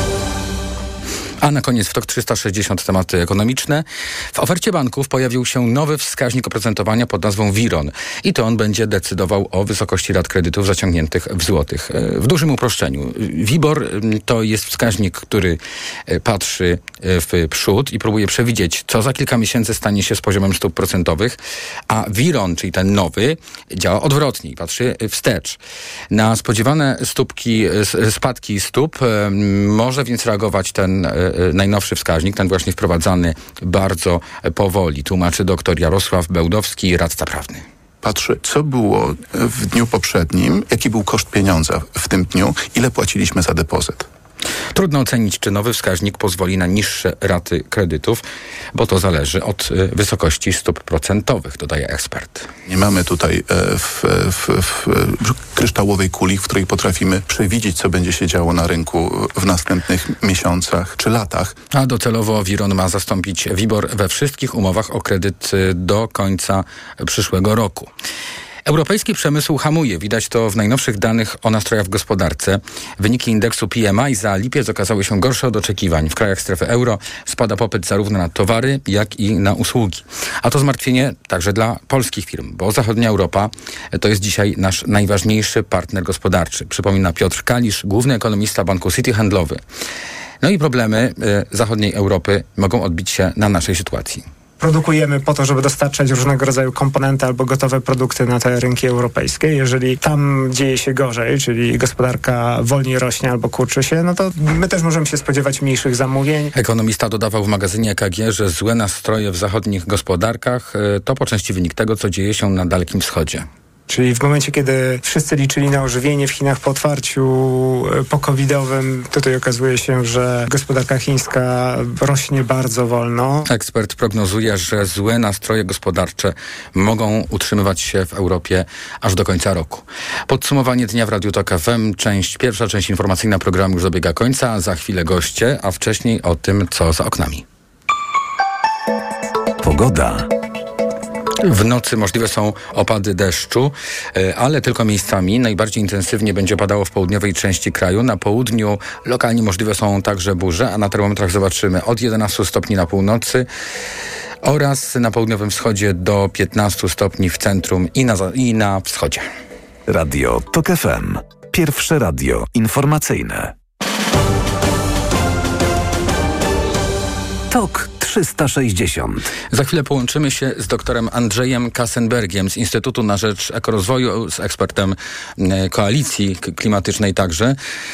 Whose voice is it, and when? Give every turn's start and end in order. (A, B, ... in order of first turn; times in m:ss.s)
0:01.4-0:21.4 A
0:21.9-0:25.6 A
0:26.1-0:37.6 A
0:38.0-0:44.1 B
0:44.7-0:48.2 A
0:48.7-0:52.5 A
0:52.7-1:01.6 B
1:01.7-1:07.9 A
1:08.6-1:29.6 A
1:30.4-1:34.2 A
1:34.6-1:46.5 C
1:46.5-1:53.5 A
1:53.9-2:03.4 C
2:03.4-2:17.4 A
2:19.6-2:20.2 D
2:21.4-2:33.5 A
2:34.4-2:39.2 A
2:39.9-2:43.5 D
2:47.5-2:49.2 D
2:49.5-2:57.6 A